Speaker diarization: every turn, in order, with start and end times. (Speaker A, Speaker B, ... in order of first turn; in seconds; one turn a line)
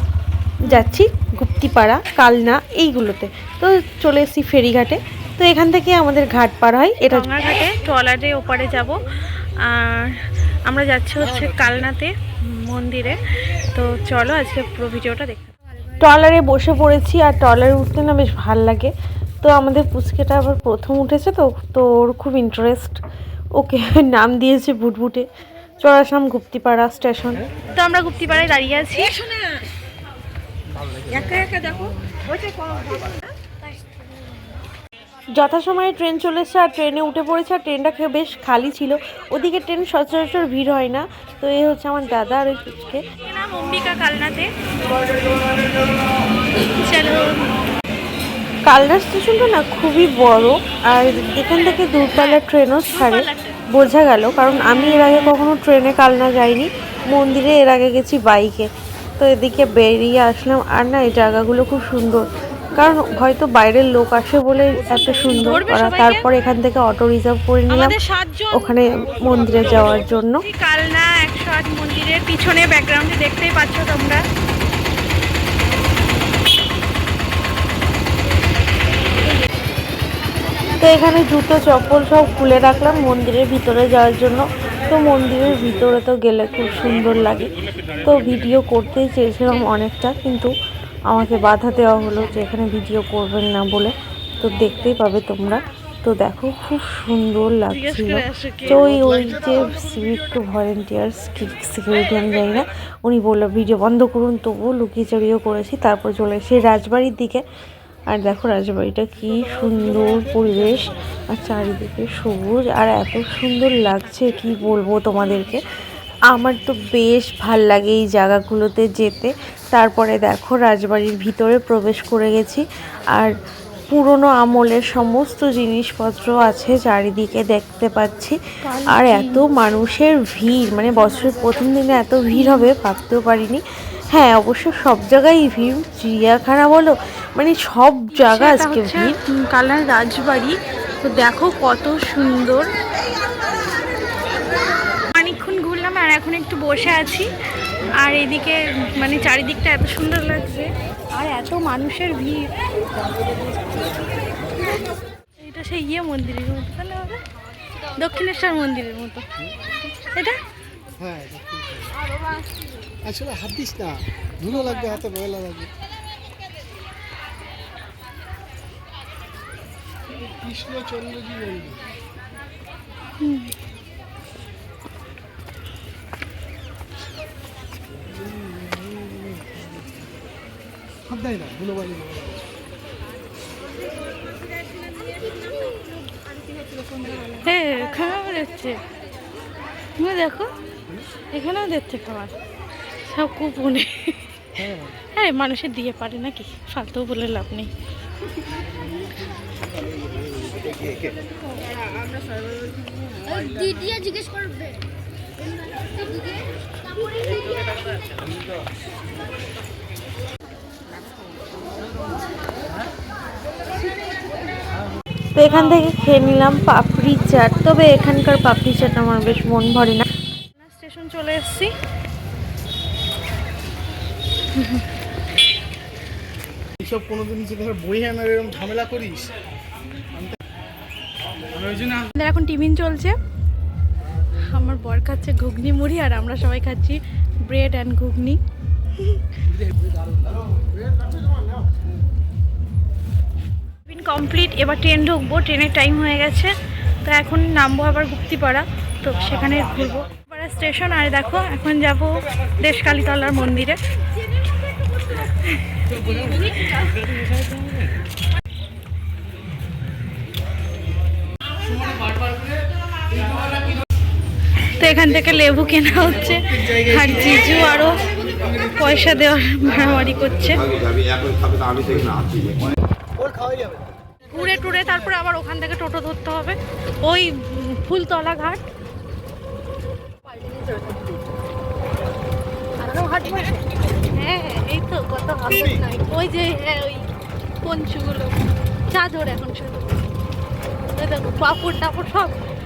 Speaker A: 0.7-7.3
Speaker B: 0.7-1.0
Speaker B: 7.0-13.2
Speaker B: 13.7-15.5
Speaker A: 16.0-23.0
Speaker A: 23.6-25.3
Speaker A: 25.8-27.5
Speaker B: 27.7-29.3
Speaker B: 31.1-32.8
Speaker A: 35.4-43.0
Speaker B: 43.2-45.3
Speaker B: 46.6-47.5
Speaker A: 48.7-68.0
Speaker B: 52.1-53.6
Speaker B: 64.9-66.3
Speaker B: 67.7-68.8
Speaker A: 68.5-70.4
Speaker B: 70.3-74.2
Speaker A: 80.8-87.5
Speaker A: 88.0-90.5
Speaker A: 91.1-107.4
Speaker B: 97.7-98.8
Speaker A: 108.1-115.6
Speaker A: 116.3-122.6
Speaker A: 123.9-128.4
Speaker B: 128.7-129.4
Speaker A: 128.9-139.2
Speaker B: 132.3-132.7
Speaker B: 138.1-142.7
Speaker B: 145.1-147.3
Speaker B: 148.0-152.5
Speaker B: 155.4-157.2
Speaker B: 157.9-159.2
Speaker B: 160.1-160.4
Speaker C: 161.0-161.9
Speaker C: 163.0-165.7
Speaker C: 170.4-171.8
Speaker B: 173.2-173.5
Speaker C: 178.2-179.7
Speaker C: 181.1-182.5
Speaker B: 187.4-188.8
Speaker B: 190.0-190.5
Speaker B: 191.3-192.3
Speaker B: 193.0-197.7
Speaker B: 203.8-204.3
Speaker A: 215.4-220.1
Speaker B: 215.4-215.9
Speaker B: 220.6-221.7
Speaker B: 224.6-224.9
Speaker C: 226.8-229.3
Speaker B: 232.1-233.2
Speaker B: 234.5-238.4
Speaker B: 243.9-253.8
Speaker B: 255.2-257.1
Speaker B: 264.7-270.7
Speaker C: 273.2-273.9
Speaker B: 274.2-278.6
Speaker B: 280.3-281.1
Speaker B: 282.8-287.1
Speaker B: 287.6-288.4
Speaker B: 288.9-290.1
Speaker B: 291.0-292.4